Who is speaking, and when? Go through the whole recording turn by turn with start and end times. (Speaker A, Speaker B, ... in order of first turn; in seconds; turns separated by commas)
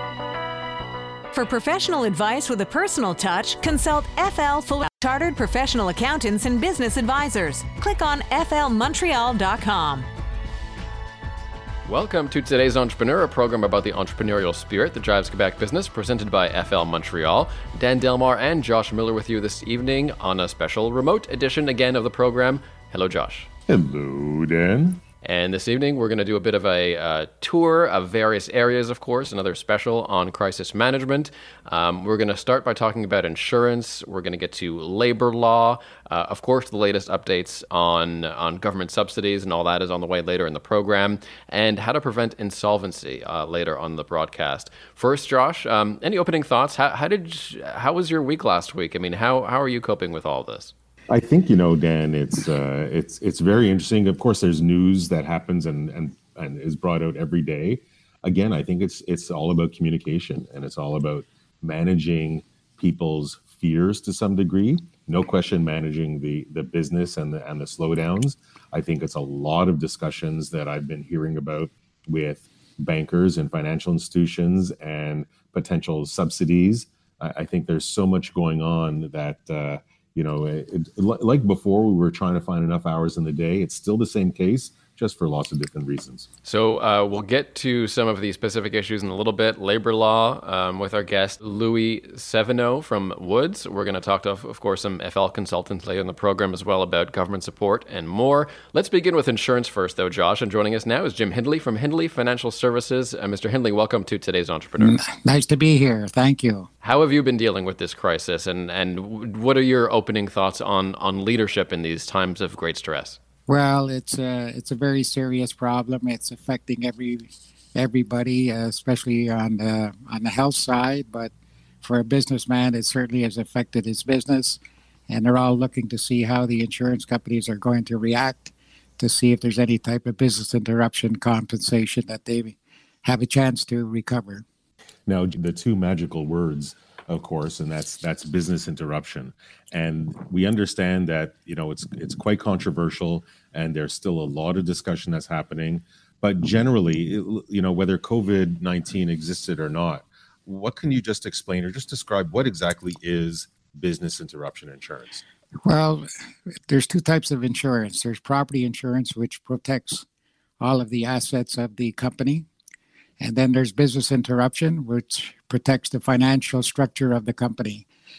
Speaker A: 1.3-10.1, Speaker B: 11.8-23.5, Speaker C: 23.7-25.0, Speaker B: 25.2-50.7, Speaker C: 51.1-86.3, Speaker B: 86.4-105.0, Speaker D: 104.8-106.7, Speaker B: 106.8-113.2, Speaker D: 113.5-134.4, Speaker C: 135.1-155.2, Speaker D: 155.6-156.1, Speaker D: 156.7-160.1, Speaker D: 160.6-162.5, Speaker D: 163.2-167.9